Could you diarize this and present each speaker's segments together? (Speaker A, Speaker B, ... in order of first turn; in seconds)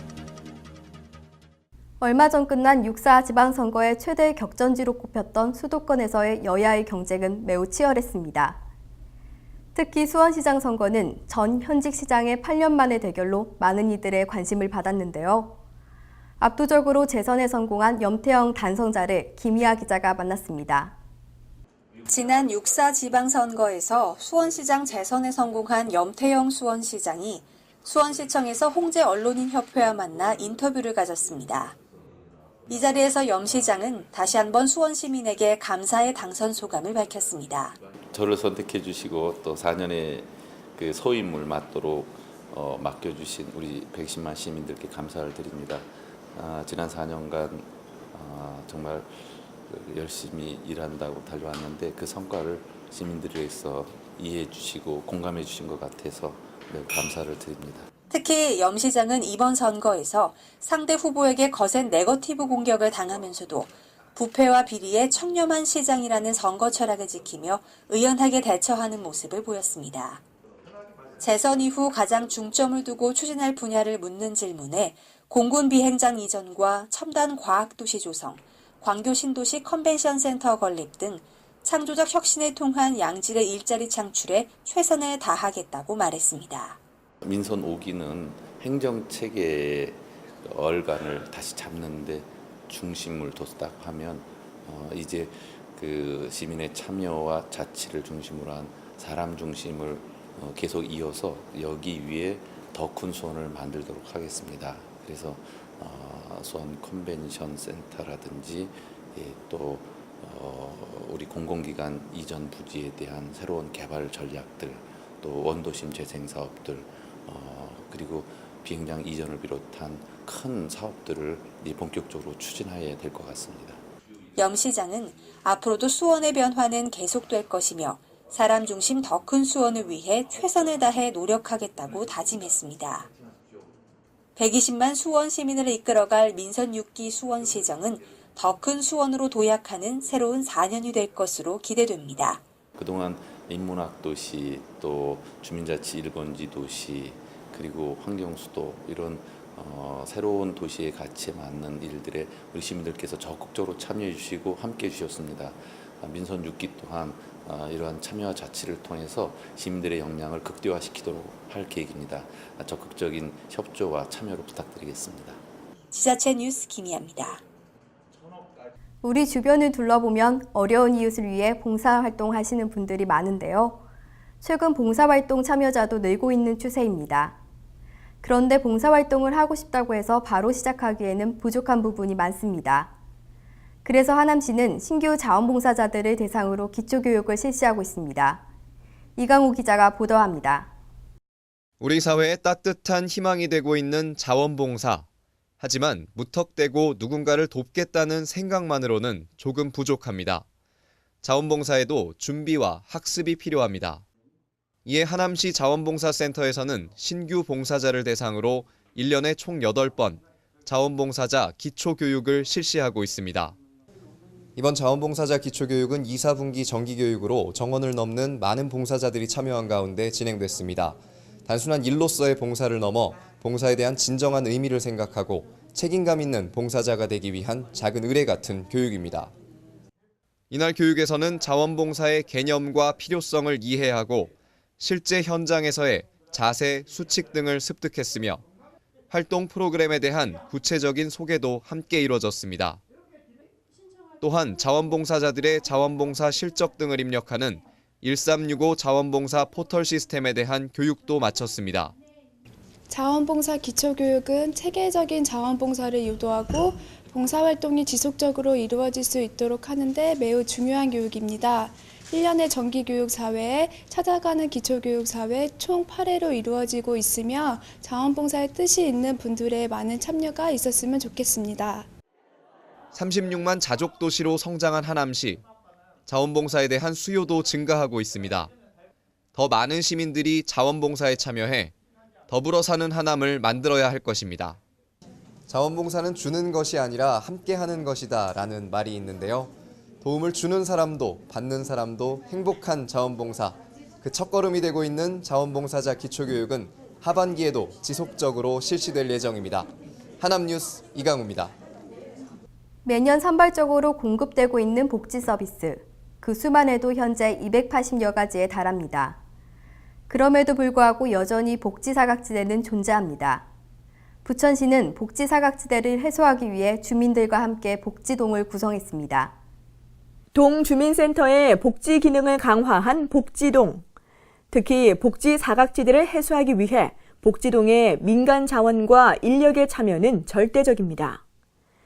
Speaker A: 2.0-8.6, 9.7-15.6, 16.4-20.9, 169.0-173.8, 174.4-177.3, 178.2-182.9, 183.8-188.4, 189.2-190.7, 302.8-309.2, 310.1-313.4, 314.2-319.3
Speaker B: 22.1-31.8, 32.7-37.8, 58.1-70.2, 71.2-86.8, 124.4-133.1, 134.3-142.4, 165.9-167.4
Speaker C: 38.1-57.9, 87.2-123.8, 142.8-165.4
Speaker D: 191.8-195.1, 195.6-200.4, 201.2-204.0, 204.8-213.5, 214.6-229.3, 230.5-238.4, 239.1-242.8, 244.2-251.9, 272.9-275.4, 276.1-278.5, 279.3-281.7, 282.3-284.6, 285.5-299.7, 300.2-301.5
Speaker E: 252.9-271.9
Speaker F: 320.3-323.8, 324.5-331.2